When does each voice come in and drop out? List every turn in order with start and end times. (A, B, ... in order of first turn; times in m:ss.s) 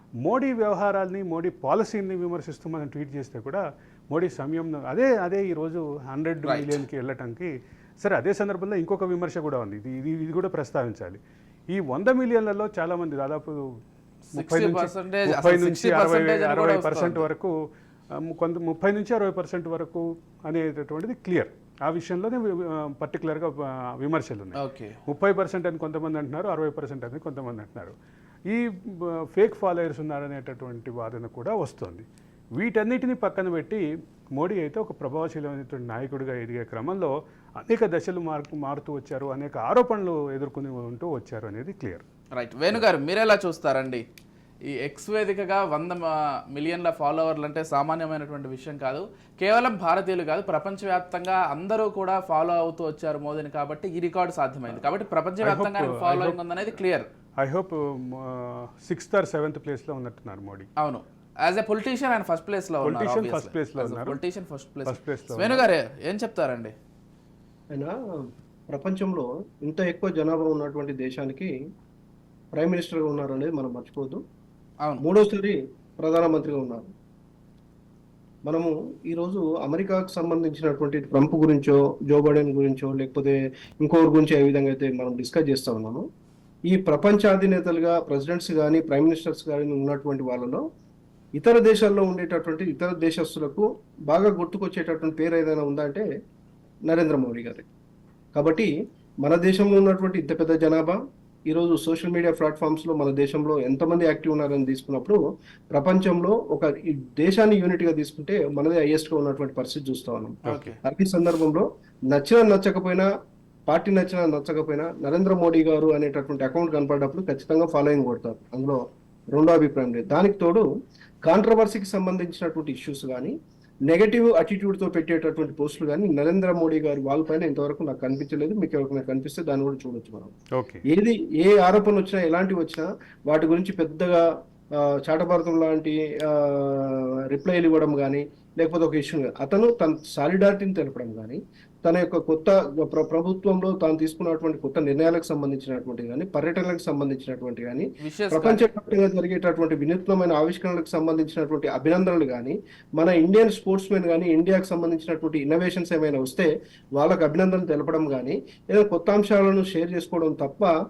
0:00.2-0:13.6 A
0:06.4-0:06.8 B
0:14.3-0:17.5 A
0:14.3-0:17.2 B
0:18.1-0:27.9 A
0:24.6-0:25.0 B
0:28.5-0:32.0 A
0:32.6-0:33.8 A
0:34.3-0:42.0 A
0:42.3-0:44.0 B
0:44.6-0:57.1 B
0:55.4-0:56.4 A
0:57.4-1:00.7 A
1:00.8-1:06.7 B
1:02.8-1:04.2 A
1:04.8-1:05.6 A
1:07.7-1:11.5 C
1:12.5-1:14.2 C
1:15.0-1:16.9 C
1:18.4-1:26.0 C
1:26.7-1:30.6 C
1:31.4-1:36.1 C
1:36.9-1:37.6 C
1:38.3-1:38.7 C
1:39.2-1:53.0 C
1:50.4-1:50.7 B
1:50.4-1:50.7 A
1:53.7-1:58.8 C
1:59.3-2:00.6 C
2:01.2-2:03.3 C
2:03.9-2:10.3 C
2:10.6-2:10.8 A
2:10.9-2:14.2 C
2:14.8-2:40.7 C
2:28.0-2:28.7 B